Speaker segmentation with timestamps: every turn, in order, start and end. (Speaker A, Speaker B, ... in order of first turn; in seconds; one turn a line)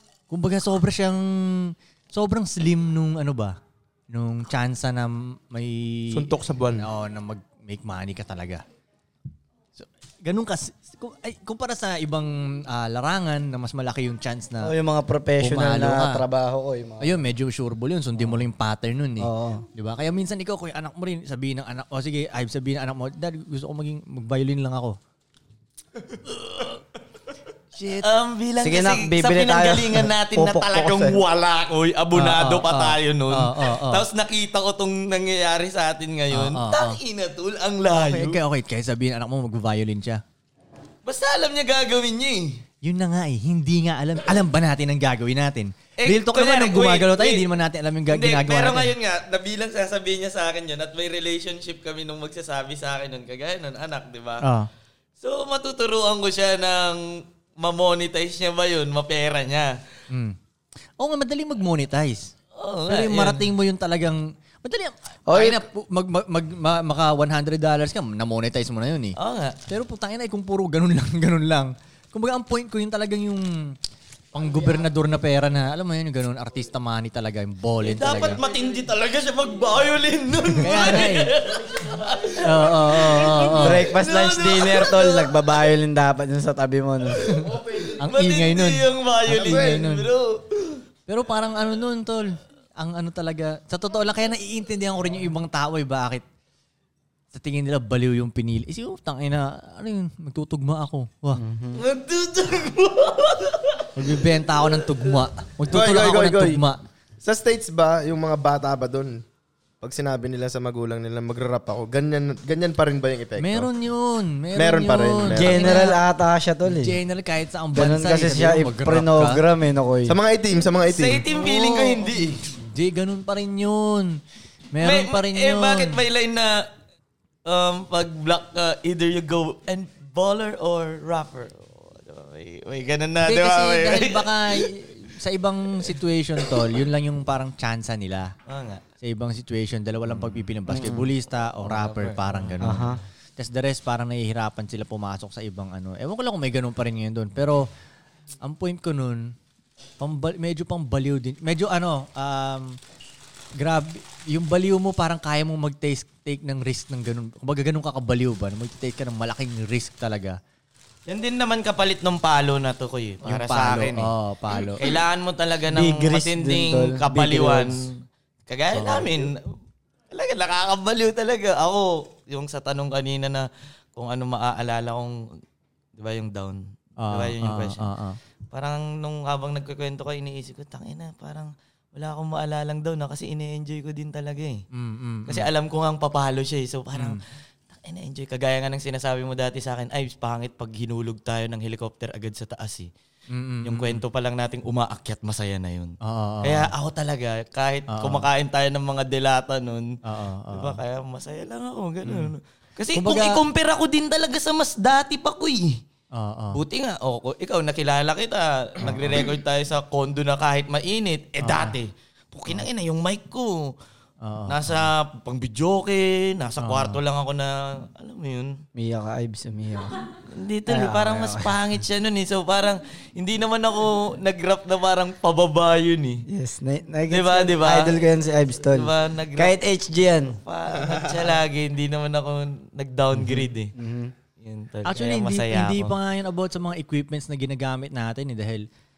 Speaker A: 0.3-3.6
Speaker A: 4.1-8.6
Speaker B: 6.1-6.9
Speaker A: 9.8-14.7
Speaker C: 14.6-17.2
Speaker A: 15.4-16.2
Speaker A: 17.0-25.0
Speaker C: 19.2-19.6
Speaker D: 26.5-26.7
Speaker A: 27.8-28.1
Speaker D: 28.0-38.4
Speaker C: 28.6-31.2
Speaker A: 32.1-34.1
Speaker A: 36.3-37.0
Speaker A: 37.9-40.2
Speaker D: 41.0-42.6
Speaker A: 42.8-48.9
Speaker D: 46.0-47.5
Speaker D: 48.1-54.5
Speaker A: 54.4-54.7
Speaker D: 55.2-59.8
Speaker A: 60.1-60.4
Speaker A: 61.0-62.3
Speaker D: 62.5-63.5
Speaker A: 62.9-69.2
Speaker C: 65.3-65.6
Speaker D: 69.2-69.6
Speaker A: 69.7-73.8
Speaker A: 74.3-78.4
Speaker D: 77.8-85.5
Speaker A: 80.6-81.3
Speaker A: 82.4-83.8
Speaker C: 83.6-87.4
Speaker A: 87.2-90.1
Speaker D: 87.4-90.8
Speaker B: 89.3-89.8
Speaker A: 91.1-96.2
Speaker A: 97.3-101.4
Speaker C: 101.3-101.8
Speaker D: 101.8-103.9
Speaker A: 104.0-106.8
Speaker B: 105.7-106.6
Speaker B: 107.2-109.2
Speaker B: 109.8-113.7
Speaker A: 113.4-116.0
Speaker B: 114.6-115.9
Speaker C: 115.3-117.0
Speaker A: 116.7-119.4
Speaker C: 117.7-120.2
Speaker B: 120.1-121.3
Speaker D: 120.9-122.4
Speaker A: 121.3-126.0
Speaker D: 124.8-126.6
Speaker D: 127.5-134.7
Speaker A: 133.2-138.3
Speaker D: 138.5-138.8
Speaker A: 139.0-147.7
Speaker C: 140.7-141.1
Speaker D: 141.7-142.4
Speaker C: 142.6-143.0
Speaker A: 148.4-149.3
Speaker A: 150.0-152.8
Speaker A: 153.6-160.4
Speaker D: 161.1-167.9
Speaker A: 163.2-164.8
Speaker C: 165.7-167.8
Speaker D: 168.5-169.4
Speaker A: 168.7-169.1
Speaker D: 170.1-175.2
Speaker D: 176.0-177.8
Speaker A: 177.0-178.2
Speaker D: 178.5-184.7
Speaker A: 184.7-185.5
Speaker D: 185.3-192.9
Speaker A: 193.3-194.0
Speaker D: 193.7-200.0
Speaker A: 196.0-196.7
Speaker A: 197.9-198.3
Speaker A: 200.1-200.8
Speaker D: 200.5-205.8
Speaker A: 202.1-202.3
Speaker A: 202.9-203.4
Speaker A: 206.2-206.6
Speaker D: 206.5-213.7
Speaker A: 208.8-209.2
Speaker A: 211.4-211.8
Speaker A: 214.2-214.9
Speaker D: 214.5-218.6
Speaker A: 216.6-217.0
Speaker C: 218.8-220.0
Speaker D: 220.3-226.2
Speaker C: 220.7-221.7
Speaker C: 226.3-230.4
Speaker D: 227.1-228.0
Speaker D: 228.7-229.6
Speaker D: 230.4-233.7
Speaker A: 233.2-233.5
Speaker C: 233.8-234.1
Speaker D: 234.4-236.0
Speaker A: 234.8-238.7